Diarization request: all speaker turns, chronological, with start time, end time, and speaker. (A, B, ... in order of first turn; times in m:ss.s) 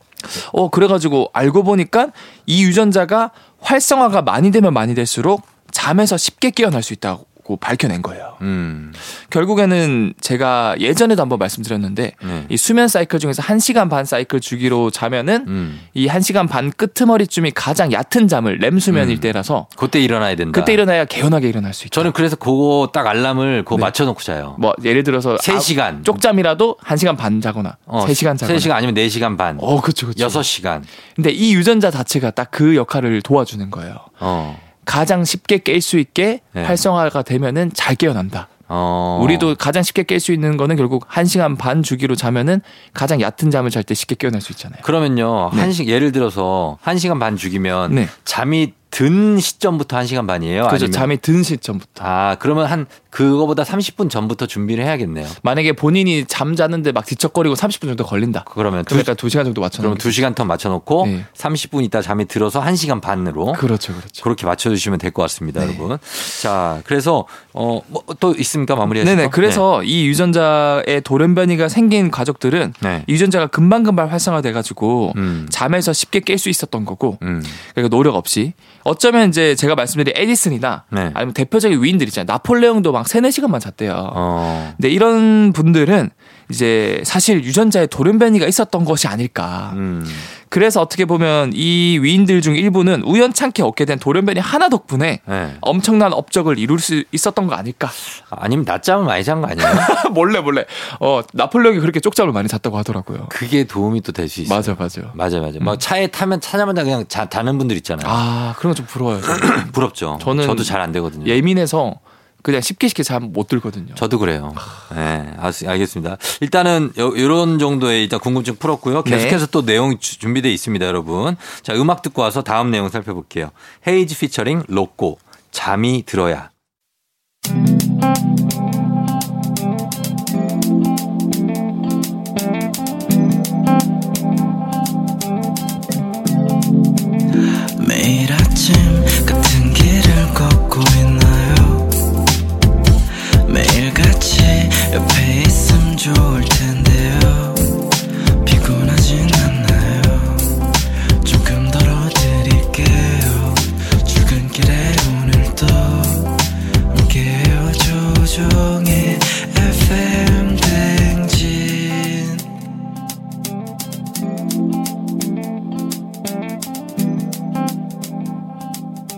0:00.3-0:08.4 A
0:08.4-0:09.0 B
0:09.1-0:19.7 A
0:12.2-0:12.5 B
0:15.5-0:15.8 B
0:18.9-0:20.8 B
0:20.5-0:22.1 A
0:21.9-0:24.6 B
0:24.6-0:28.7 A
0:25.4-0:26.2 B
0:27.9-0:30.9 B
0:29.6-0:30.5 A
0:31.2-0:34.1 A
0:34.2-0:34.6 B
0:34.8-0:38.5 A
0:36.6-0:36.8 B
0:38.7-0:39.6 B
0:39.2-0:44.8 A
0:44.8-0:51.1 B
0:47.9-0:48.1 A
0:50.7-0:52.0 A
0:52.0-0:55.4 B
0:55.4-1:00.2 A
0:58.5-0:59.1 B
0:59.8-1:03.6 B
1:01.0-1:01.3 A
1:03.5-1:04.2 A
1:04.2-1:09.6 B
1:05.6-1:05.8 A
1:09.0-1:24.2 A
1:12.8-1:13.1 B
1:15.1-1:15.6 B
1:17.2-1:17.6 B
1:20.9-1:21.2 B
1:24.1-1:24.8 B
1:24.8-1:29.8 A
1:29.7-1:30.3 B
1:30.3-1:38.0 A
1:35.3-1:35.6 B
1:38.2-1:39.9 B
1:39.6-1:43.3 A
1:43.3-1:48.2 B
1:44.5-1:45.8 A
1:48.0-1:54.0 A
1:49.2-1:51.4 B
1:54.0-2:06.5 B
1:59.0-1:59.4 A
2:17.8-2:22.1 C
2:23.4-2:42.5 C